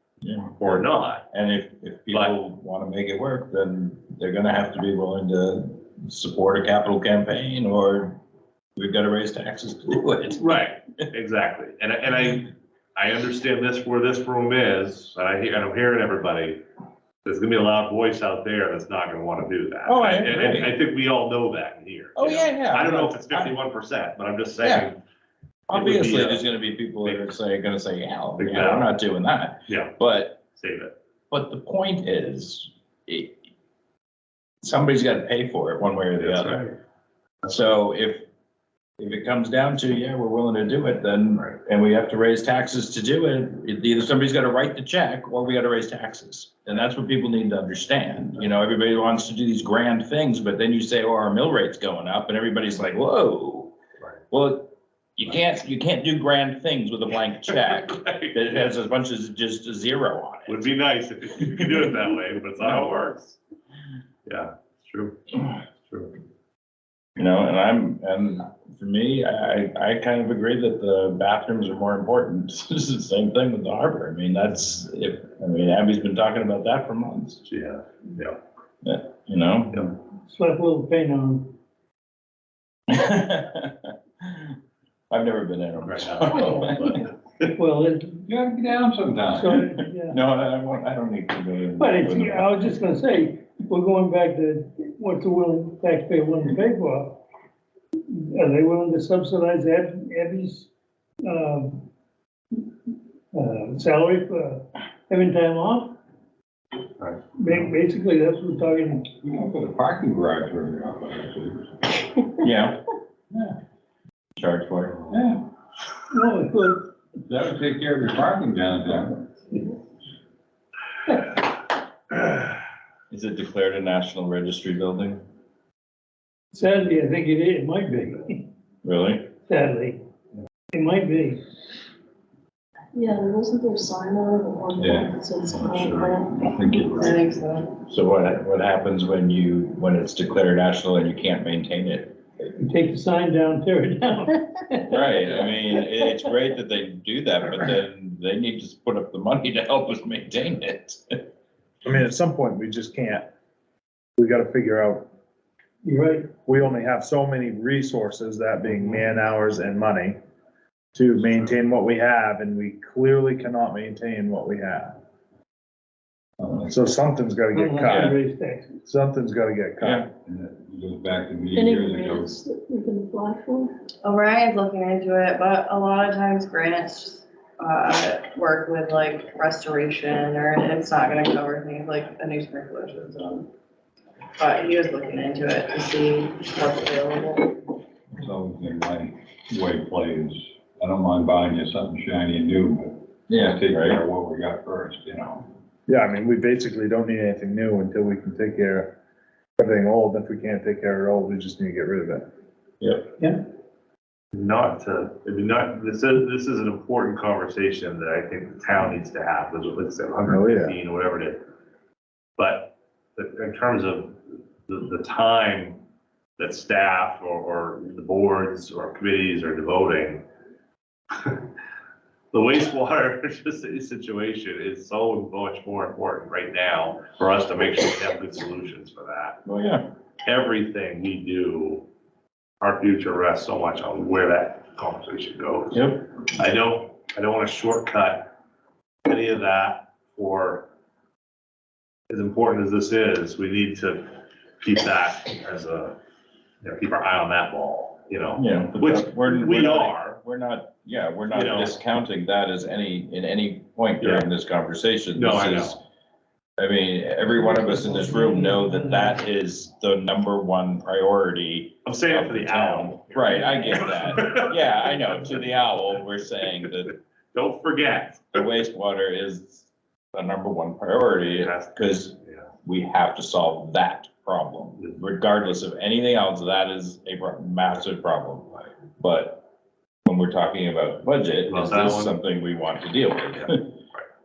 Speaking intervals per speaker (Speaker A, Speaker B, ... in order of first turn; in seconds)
Speaker A: 0.2-8.2, 8.8-10.6, 19.9-20.7, 22.2-23.6, 24.6-24.9, 25.7-30.4, 31.3-33.4, 34.6-36.6, 37.5-38.2, 39.0-53.7, 54.3-60.6, 67.2-77.4, 78.8-79.8, 82.9-84.5, 85.1-87.0, 89.6-92.8, 112.4-112.8, 114.3-115.0, 123.1-125.2, 128.8-129.3, 137.9-142.2, 144.9-151.2, 167.9-168.2, 169.8-170.1, 193.3-194.0, 202.8-203.1, 229.4-229.8, 235.7-236.1, 248.4-255.8, 256.6-266.9, 268.3-279.4, 280.1-283.6
Speaker B: 0.6-1.3, 10.4-16.6, 17.2-25.0, 25.7-26.4, 27.0-27.3, 28.4-28.9, 29.7-29.9, 30.6-30.9, 36.2-36.7, 57.9-58.4, 60.5-63.4, 64.2-65.2, 65.8-66.1, 77.4-78.4, 85.8-87.5, 107.0-107.7, 204.3-211.4, 212.4-215.8, 216.4-220.2, 222.3-229.4, 230.2-231.8, 232.6-235.8, 236.3-238.3, 239.1-240.7, 242.1-246.0, 246.6-250.2, 251.3-251.7, 254.0-254.3, 255.2-255.8, 261.9-265.0, 267.3-268.4, 271.4-272.5, 281.5-282.2, 283.4-284.1
Speaker C: 80.3-81.5, 87.6-88.2, 89.3-90.2, 91.8-97.2, 98.1-100.7, 101.2-101.9, 103.3-106.0, 107.4-109.1, 116.1-116.9, 126.5-128.4, 129.5-130.0, 130.7-131.4, 142.5-145.5, 155.8-156.3, 167.5-168.8, 257.4-259.2
Speaker D: 88.3-89.5, 109.1-112.0, 115.1-115.4, 117.2-119.3, 134.8-137.2, 166.4-166.9, 170.2-172.3, 188.2-195.5
Speaker E: 132.9-137.1, 171.5-173.8
Speaker F: 137.1-137.7, 174.0-183.5, 184.4-187.5
Speaker G: 151.8-153.3, 154.2-155.1, 156.4-160.2, 160.9-164.9, 166.7-168.2, 168.8-170.1, 195.9-198.9, 199.6-202.3, 210.3-210.8